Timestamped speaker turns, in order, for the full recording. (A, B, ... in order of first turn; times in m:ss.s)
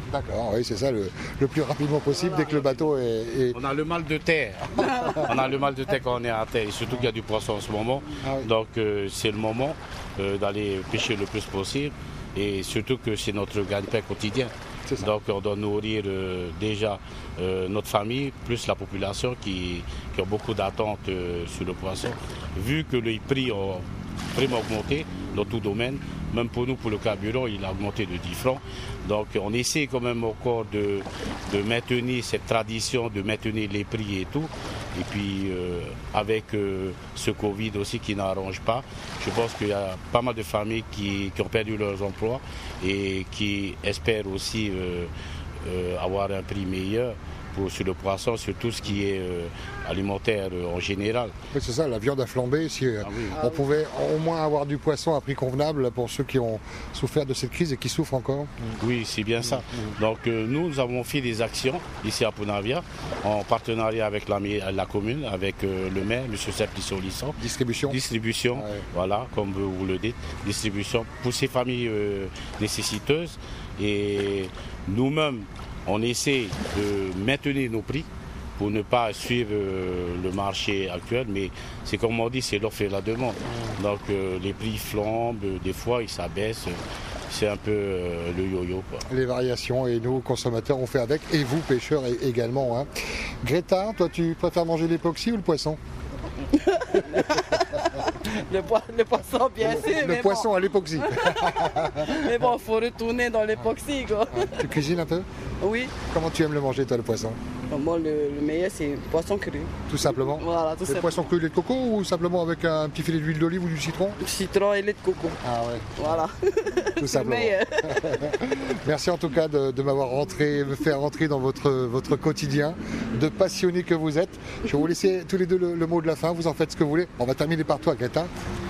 0:00.1-0:03.6 A
0:03.5-0:45.1 B
0:04.8-0:05.3 A
0:08.2-0:08.5 A
0:14.9-0:15.1 A
0:45.6-0:51.3 B
0:51.5-0:58.8 A
0:53.0-0:53.4 B
0:53.3-0:53.7 C
0:58.8-1:26.8 B
0:59.4-1:00.0 A
1:07.4-1:08.0 A
1:08.5-1:08.8 A
1:23.5-1:23.8 A
1:27.3-1:29.0 B
1:29.1-1:32.9 A
1:33.4-1:35.8 A
1:36.5-1:44.6 C
1:39.6-1:42.3 A
1:44.3-1:45.3 A
1:45.6-1:45.9 C
1:46.1-1:47.4 A
1:47.7-1:51.1 C
1:49.9-1:54.2 A
1:54.2-1:55.4 C
1:55.4-1:56.2 A
1:56.0-1:58.2 C
1:57.0-2:08.3 A